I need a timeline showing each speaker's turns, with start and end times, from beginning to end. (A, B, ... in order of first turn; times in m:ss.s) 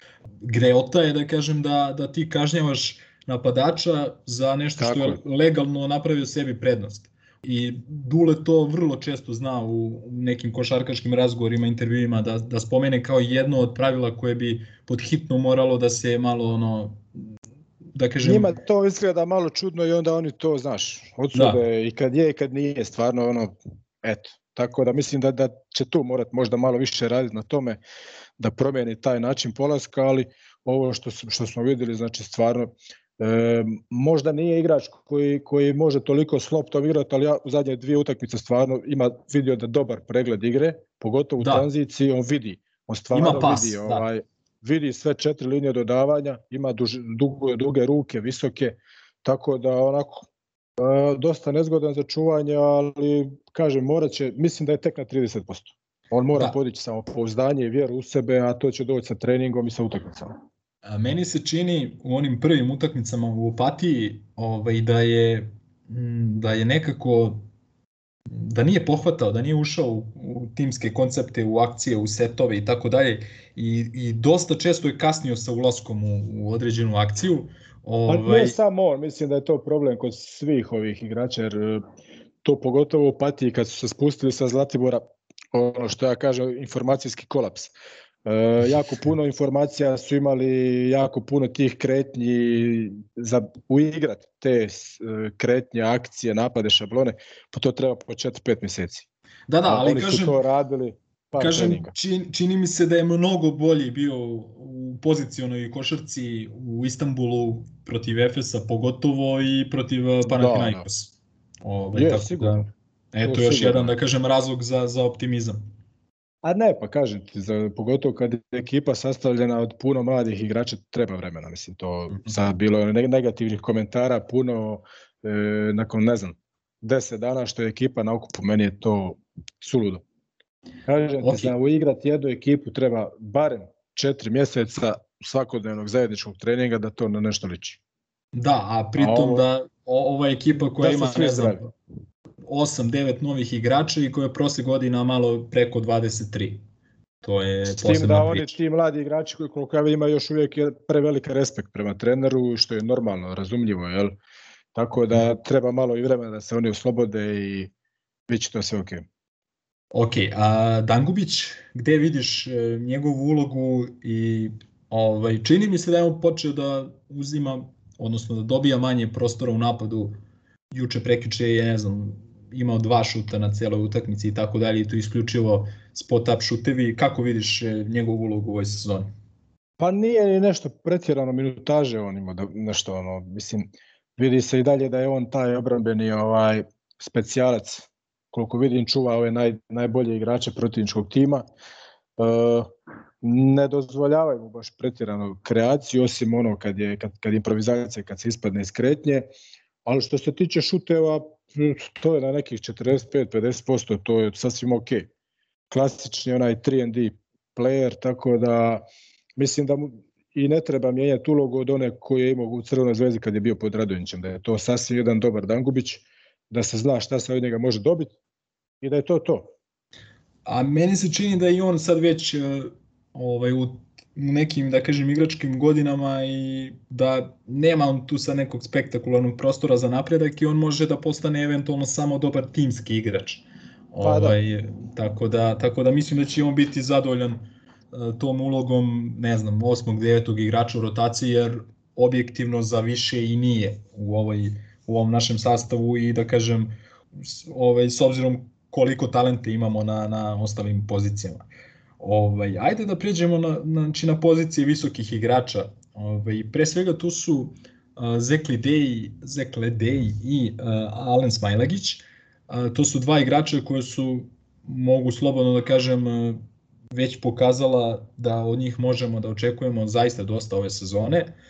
0:00.4-0:17.0 A
0:04.8-0:05.2 B
0:18.0-0:18.6 A
0:18.2-0:27.8 B
0:21.3-0:21.6 A
0:28.4-0:50.3 B
0:41.4-0:41.7 A
0:43.1-0:44.0 A
0:50.8-1:00.3 B
1:00.8-1:07.4 A
1:08.3-1:18.6 A
1:18.1-1:21.8 B
1:22.4-1:27.7 B
1:28.2-1:39.1 B
1:39.5-1:40.4 A
1:39.7-1:41.9 B
1:41.4-1:55.6 A
1:50.2-1:50.9 B
1:52.0-1:52.7 B
1:53.2-1:53.9 B
1:56.4-2:10.0 B
2:10.9-2:17.8 B
2:11.2-2:11.5 A
2:18.3-2:21.6 A
2:19.0-2:19.4 B
2:20.8-2:21.6 B
2:22.5-2:26.6 A
2:27.2-2:28.6 A
2:27.7-2:34.2 B
2:34.8-2:37.7 B
2:38.3-2:39.1 B
2:39.9-2:50.2 A
2:50.7-2:59.1 A
2:59.8-3:11.5 B
3:12.2-3:12.7 B
3:13.2-3:19.3 B
3:19.8-3:25.1 B
3:25.7-3:28.8 B
3:29.4-3:38.1 B
3:38.8-3:39.5 B
3:40.4-4:11.4 A
3:54.0-3:54.4 B
4:12.0-4:31.3 A